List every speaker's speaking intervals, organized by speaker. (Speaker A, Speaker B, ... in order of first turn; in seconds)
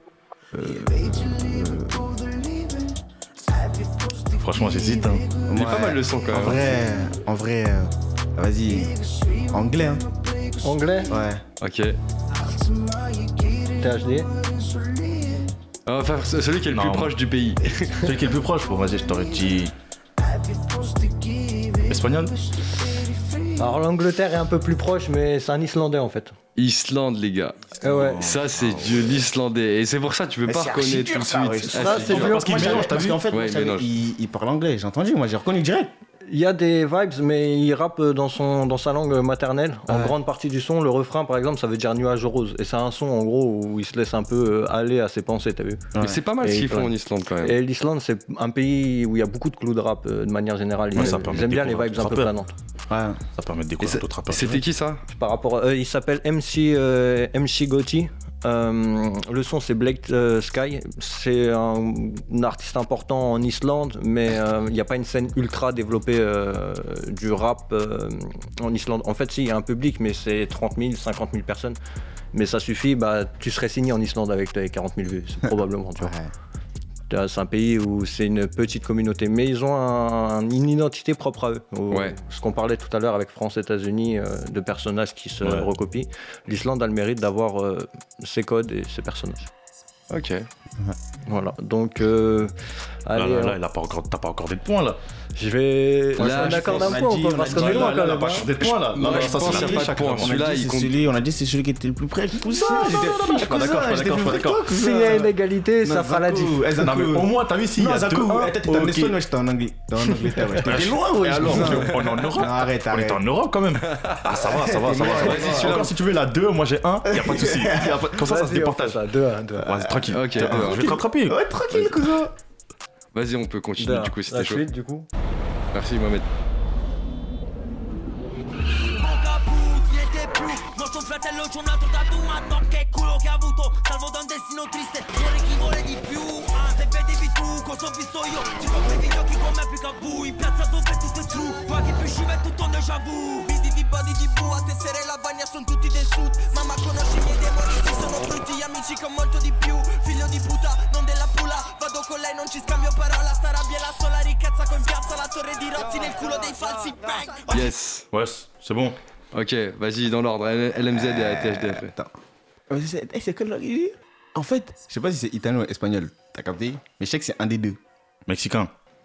Speaker A: 0.5-2.0, 5.5-8.9, 9.5-10.1, 11.1-11.4, 30.5-35.9, 39.9-40.2, 45.9-46.2, 52.9-53.2, 76.0-76.3, 96.2-113.2, 114.4-115.8, 117.1-118.1, 119.9-122.3, 160.9-162.1, 162.7-167.8
Speaker B: 0.6-5.7, 8.7-11.1, 12.3-15.5, 19.0-19.6, 20.2-23.8, 128.8-157.7
Speaker C: 4.4-5.3, 16.7-17.1, 18.0-19.8, 21.9-22.3, 27.8-29.2, 32.0-33.2, 50.9-52.3, 53.4-54.6, 85.4-85.7, 93.2-95.0, 97.5-100.3, 102.7-104.6, 106.8-109.2, 110.6-121.4, 158.1-159.0, 168.3-168.7
Speaker D: 5.5-6.6, 11.6-12.0, 15.9-17.9, 26.6-32.4, 33.3-33.9, 46.0-47.6, 53.8-55.0, 81.9-82.2, 90.1-90.5, 96.2-98.3, 98.8-100.9, 113.9-114.2, 115.1-115.9, 120.1-120.9, 123.1-124.6, 125.7-126.2, 157.5-158.1, 159.3-161.9
Speaker E: 10.6-11.1, 13.8-14.3, 23.6-26.4, 27.8-28.3, 31.7-32.9, 36.3-52.5, 55.1-71.8, 72.3-76.2, 77.1-89.5, 91.3-92.5, 93.1-93.6, 95.4-98.5, 102.6-103.4, 104.6-106.8, 110.6-111.9, 118.2-119.9, 123.8-125.1